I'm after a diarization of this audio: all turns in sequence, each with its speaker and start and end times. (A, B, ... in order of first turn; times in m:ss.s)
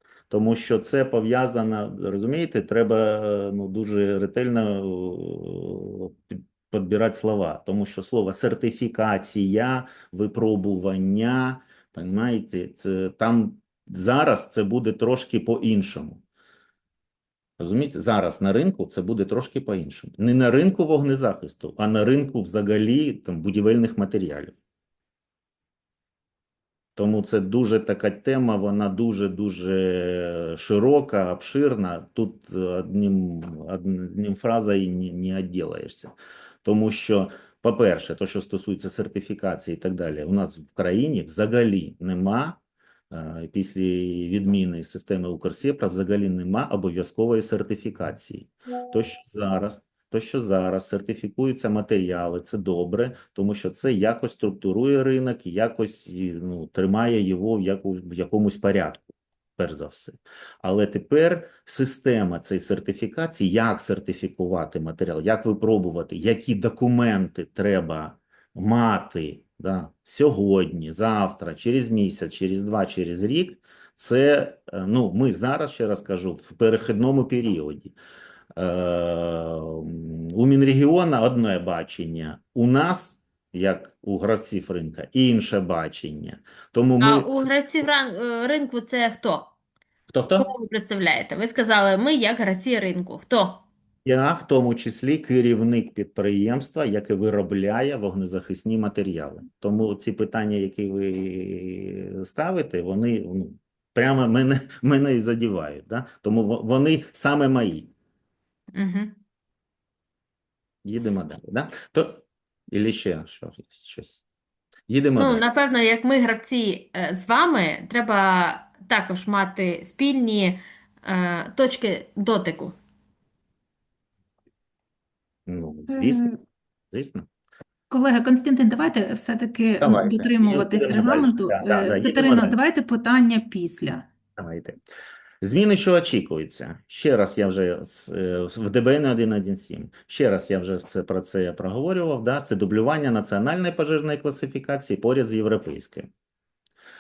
0:00.3-0:16.2 A
0:17.6-0:24.6 A
0:27.0-0:36.1 A
0:36.6-0:42.6 A
0:43.1-1:18.0 A
1:18.6-1:27.5 A
1:27.0-1:29.5 B
1:30.1-1:30.5 A
1:30.4-1:33.6 B
1:34.0-1:47.9 A
1:48.7-1:49.2 B
1:50.8-1:54.2 A
1:54.9-1:55.4 A
1:55.2-2:02.8 B
2:05.5-2:06.3 A
2:05.9-2:06.4 C
2:06.9-2:07.3 A
2:07.9-2:14.0 C
2:09.8-2:12.6 A
2:14.4-2:14.8 A
2:15.4-2:26.1 A